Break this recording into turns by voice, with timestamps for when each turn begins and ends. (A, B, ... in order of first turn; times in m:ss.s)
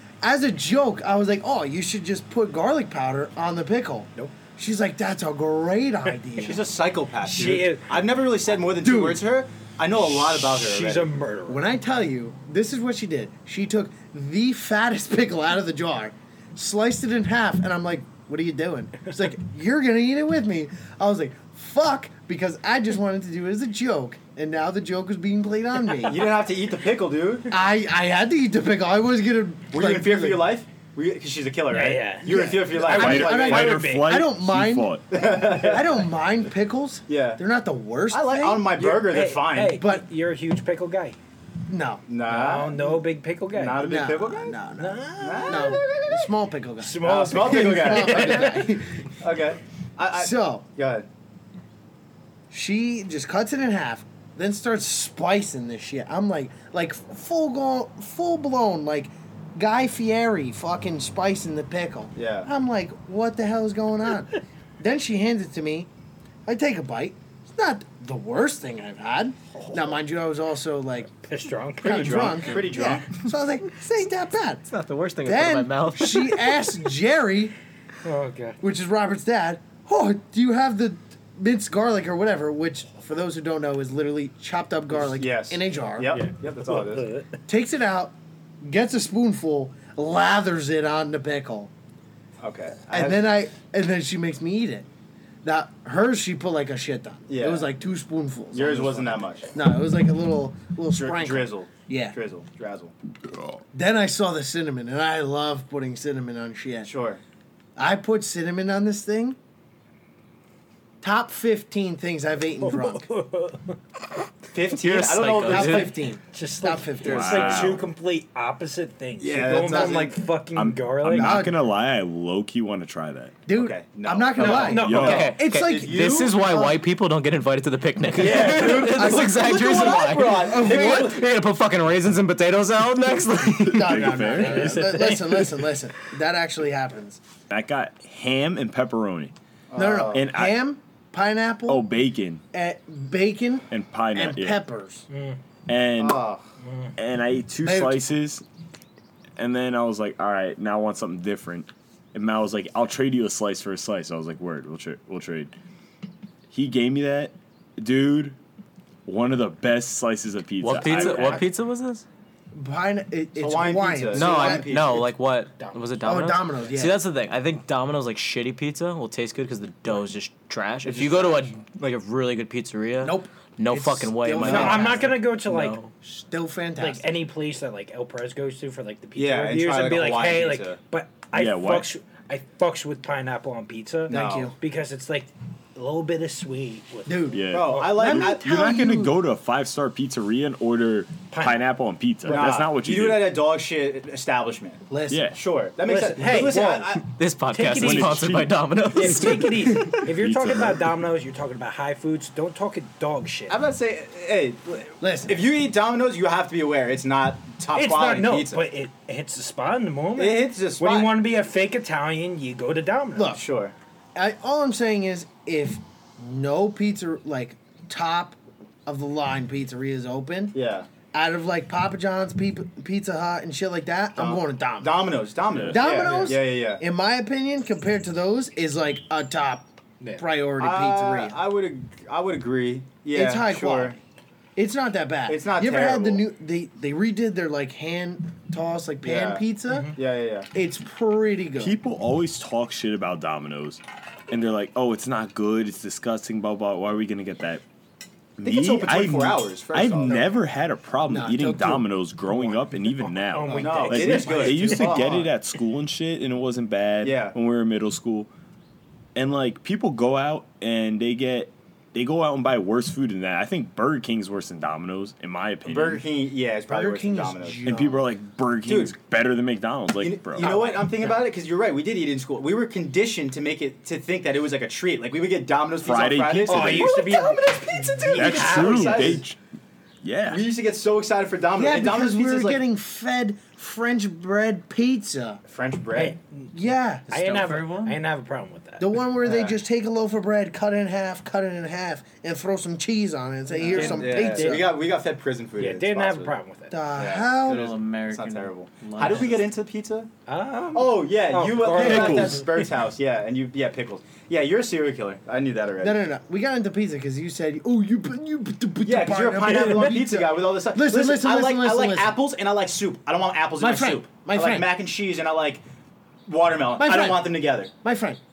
0:00.2-0:06.6 A
0:06.4-0:11.1 B
0:07.2-0:07.9 C
0:08.8-0:09.2 A
0:10.0-0:11.6 C
0:11.5-0:26.2 A
0:26.0-0:27.5 B
0:27.5-0:30.4 A
0:29.7-0:33.8 B
0:31.7-0:34.2 C
0:32.2-0:38.8 A
0:32.9-0:35.1 D
0:35.1-0:36.1 B
0:37.1-0:37.4 B
0:38.1-0:39.8 B
0:38.8-0:41.2 C
0:39.7-0:40.1 A
0:41.7-0:42.0 A
0:42.1-0:43.0 B
0:42.3-0:43.9 C
0:43.5-0:44.6 B
0:43.8-0:49.1 A
0:44.8-0:46.2 C
0:45.2-0:46.0 B
0:46.8-0:48.7 C
0:47.0-0:51.0 B
0:50.1-0:50.6 A
0:52.5-1:05.9 A
1:02.2-1:02.5 B
1:06.5-1:11.1 A
1:11.2-1:12.5 C
1:11.8-1:14.6 A
1:11.8-1:13.1 B
1:14.7-1:16.5 E
1:15.2-1:17.6 A
1:18.0-1:18.6 C
1:18.6-1:26.2 A
1:25.0-1:27.1 B
1:26.2-1:27.4 C
1:27.5-1:31.7 A
1:32.4-1:33.2 B
1:32.9-1:34.9 A
1:35.4-1:42.2 A
1:37.3-1:37.7 B
1:38.5-1:39.5 B
1:40.9-1:42.9 B
1:43.7-1:46.9 A
1:46.8-1:47.2 B
1:47.8-1:49.4 A
1:51.0-1:53.1 A
1:52.6-1:53.8 C
1:54.5-1:56.0 B
1:54.6-1:55.9 E
1:55.4-1:57.8 A
1:56.3-2:01.5 C
1:57.0-1:57.9 D
1:59.2-2:00.2 B
1:59.4-2:00.1 A
2:00.5-2:03.4 D
2:01.2-2:01.7 A
2:03.5-2:06.8 A
2:03.5-2:06.4 B
2:04.4-2:05.4 C
2:04.7-2:05.4 D
2:05.0-2:14.5 E
2:08.1-2:11.2 B
2:08.5-2:11.2 A
2:13.7-2:17.2 A
2:13.7-2:14.9 D
2:14.4-2:15.7 C
2:17.5-2:19.3 D
2:19.7-2:20.3 B
2:19.8-2:21.9 A
2:20.1-2:20.6 D
2:21.7-2:22.4 D
2:22.5-2:25.1 A
2:23.7-2:24.6 D
2:25.1-2:25.4 C
2:25.7-2:26.2 D
2:26.0-2:26.4 B
2:26.6-2:26.9 C
2:27.0-2:28.4 D
2:27.6-2:28.1 A
2:29.4-2:35.5 D
2:36.5-2:38.4 D
2:39.1-2:41.5 D
2:40.6-2:42.0 E
2:40.9-2:41.4 A
2:42.5-2:44.7 A
2:43.4-2:45.1 B
2:44.1-2:55.9 E
2:46.0-2:47.0 A
2:50.8-2:51.5 B
2:53.0-2:55.2 A
2:54.4-2:55.8 C
2:56.0-2:57.2 A
2:56.8-3:07.9 C
2:59.2-3:00.8 B
3:01.3-3:01.9 D
3:04.1-3:04.5 B
3:04.1-3:04.6 A
3:07.1-3:09.2 A
3:07.3-3:13.3 D
3:07.5-3:08.5 B
3:11.3-3:11.6 C
3:12.3-3:17.1 B
3:14.9-3:15.3 A
3:15.1-3:15.4 D
3:15.8-3:18.4 C
3:17.1-3:20.0 E
3:17.7-3:20.9 D
3:18.9-3:23.6 C
3:23.5-3:28.6 B
3:25.0-3:25.4 A
3:27.7-3:33.4 C
3:30.2-3:31.1 B
3:33.2-3:33.4 A
3:33.3-3:33.7 B
3:34.2-3:40.6 A
3:40.5-3:40.9 B
3:41.1-3:45.1 A
3:44.2-3:46.8 B
3:45.5-3:46.1 D
3:45.7-3:51.4 A
3:50.6-3:54.0 B
3:53.1-3:54.0 A
3:54.6-3:59.9 A
3:55.3-3:56.3 B
3:59.0-4:00.5 B
3:59.7-4:00.0 C
4:00.5-4:01.8 A
4:01.6-4:07.6 D
4:08.4-4:18.3 D
4:08.4-4:10.3 B
4:10.1-4:10.3 A
4:11.1-4:11.9 A
4:12.3-4:15.3 C
4:13.6-4:15.3 B
4:17.0-4:17.4 B
4:19.2-4:26.0 D
4:25.7-4:27.6 B
4:26.7-4:28.1 A
4:27.7-4:30.5 D
4:28.7-4:28.9 B
4:30.0-4:36.9 B
4:30.4-4:30.8 C
4:35.8-4:37.0 D
4:36.5-4:39.2 C
4:36.9-4:38.3 E
4:38.1-4:39.2 B
4:38.2-4:39.4 D
4:40.0-4:40.4 D
4:40.3-4:42.6 B
4:41.6-4:45.4 A
4:45.5-4:46.2 B
4:46.0-4:46.5 C
4:46.5-4:47.1 A
4:47.1-4:48.0 E
4:47.1-4:48.9 C
4:48.8-4:54.7 A
4:49.2-4:49.6 B
4:53.6-4:54.7 C
4:53.7-4:56.3 B
4:55.6-4:56.8 C
4:56.7-4:57.7 A
4:57.0-5:00.1 B
4:57.4-4:59.5 E
5:00.3-5:02.6 C
5:00.7-5:06.0 B
5:01.7-5:02.5 D
5:05.8-5:12.2 A
5:08.8-5:15.6 B
5:13.6-5:14.7 A
5:16.3-5:17.7 B
5:16.8-5:18.2 A